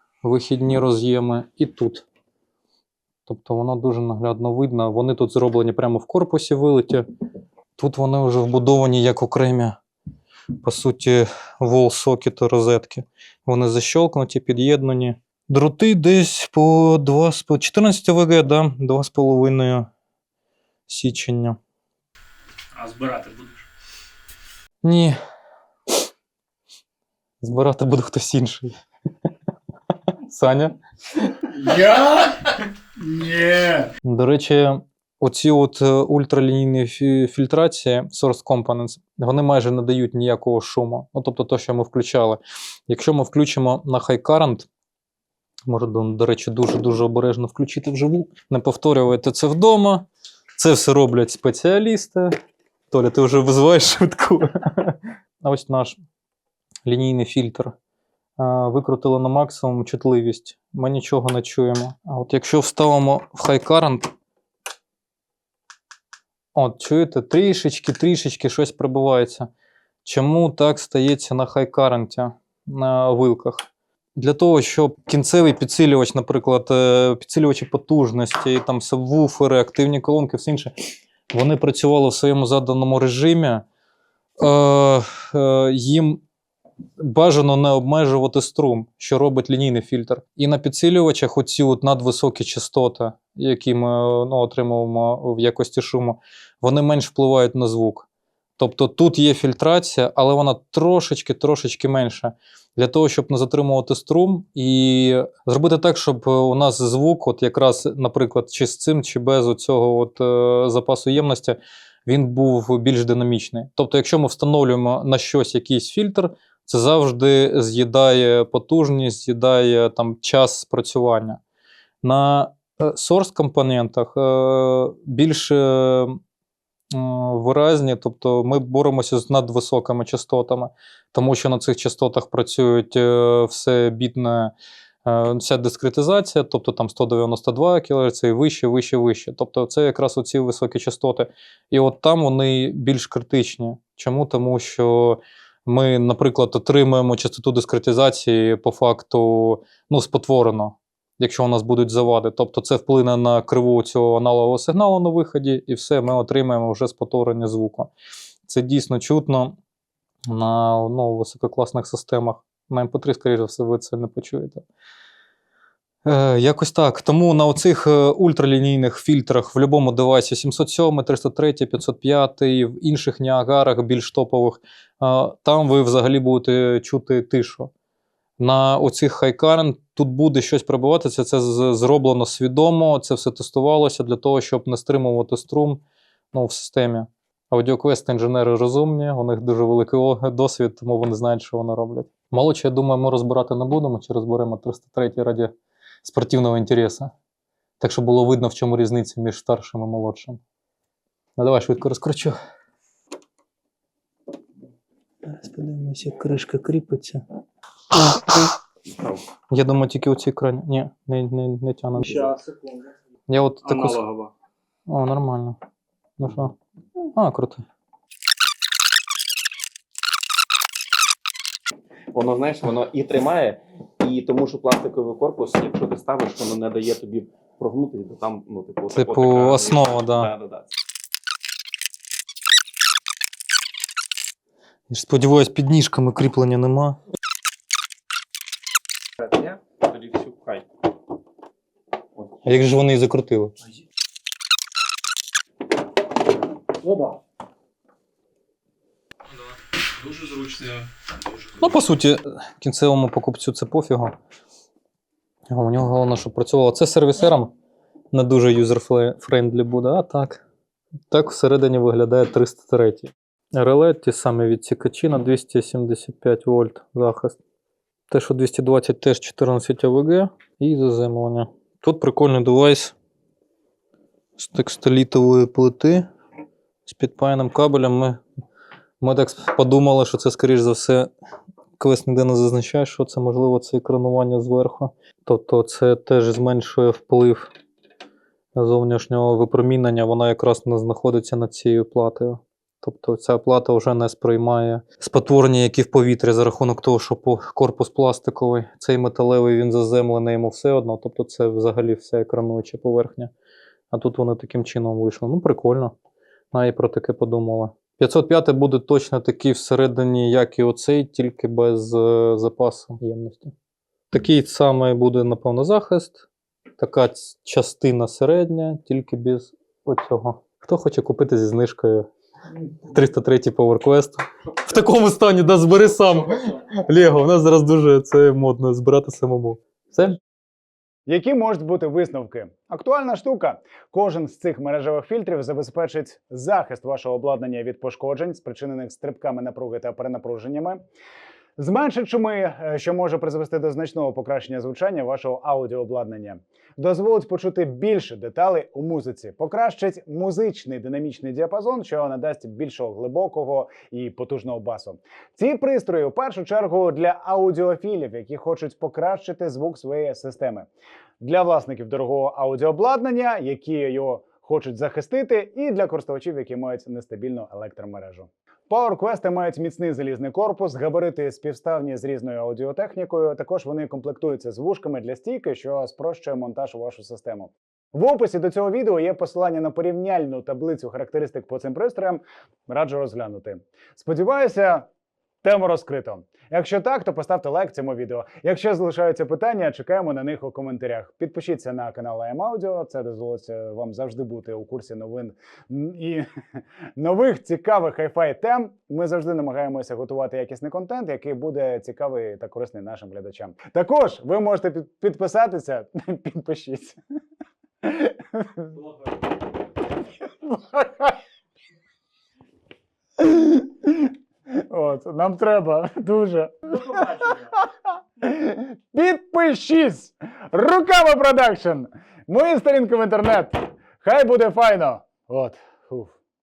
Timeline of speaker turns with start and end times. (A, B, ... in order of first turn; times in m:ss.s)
0:00.2-0:02.1 A
0:03.3-0:07.1 A
0:07.8-0:09.8 A
0:10.6-0:19.9 A
0:20.9-0:21.6 A
0:22.7-0:23.7 B
0:24.8-0:25.2 A
0:27.4-0:28.8 A
0:30.3-0:31.4 A
0:31.6-0:32.4 C
0:33.0-0:33.9 C
0:34.0-0:44.7 A
0:45.7-0:52.3 A
0:52.9-0:56.0 A
0:56.9-0:57.7 A
0:58.4-1:04.1 A
1:06.6-1:09.5 A
1:10.0-1:13.6 A
1:14.2-1:20.7 A
1:21.3-1:23.6 A
1:24.4-1:26.2 A
1:27.0-1:38.1 A
1:38.6-2:01.4 A
2:02.0-2:06.2 A
2:06.9-2:14.5 A
2:15.0-2:37.9 A
2:38.5-2:39.6 A
2:40.3-2:44.6 A
2:46.0-2:57.7 A
2:58.4-3:05.8 A
3:06.3-3:15.5 A
3:16.0-3:17.1 A
3:17.8-3:20.4 A
3:21.4-3:22.4 A
3:25.2-3:27.2 A
3:27.9-3:28.5 A
3:28.9-3:29.2 D
3:29.5-3:32.3 A
3:32.0-3:33.0 B
3:33.3-3:34.0 A
3:33.6-3:34.3 B
3:34.9-3:35.6 A
3:36.2-3:36.6 A
3:37.1-3:37.6 A
3:42.1-3:50.8 D
3:48.9-3:50.3 A
3:54.9-3:57.0 A
3:59.2-3:59.6 B
3:59.8-4:00.6 D
4:02.4-4:03.5 A
4:06.8-4:07.2 B
4:09.8-4:11.6 B
4:11.6-4:14.1 A
4:15.5-4:17.5 A
4:18.1-4:20.4 A
4:21.1-4:27.4 A
4:28.1-4:32.9 A
4:34.4-4:36.1 A
4:36.9-4:38.2 A
4:39.0-4:41.1 A
4:41.8-4:47.5 A
4:48.6-5:03.3 A
5:03.9-5:05.9 A
5:06.5-5:13.5 A
5:14.1-5:16.2 A
5:16.8-5:22.1 A
5:22.9-5:30.2 A
5:31.1-5:40.8 C
5:41.6-6:00.7 C
6:01.2-6:24.9 C
6:25.4-6:36.3 C
6:37.0-6:47.0 C
6:47.8-6:48.8 C
6:50.4-6:51.2 C
6:53.2-7:06.2 C
6:56.7-6:57.6 B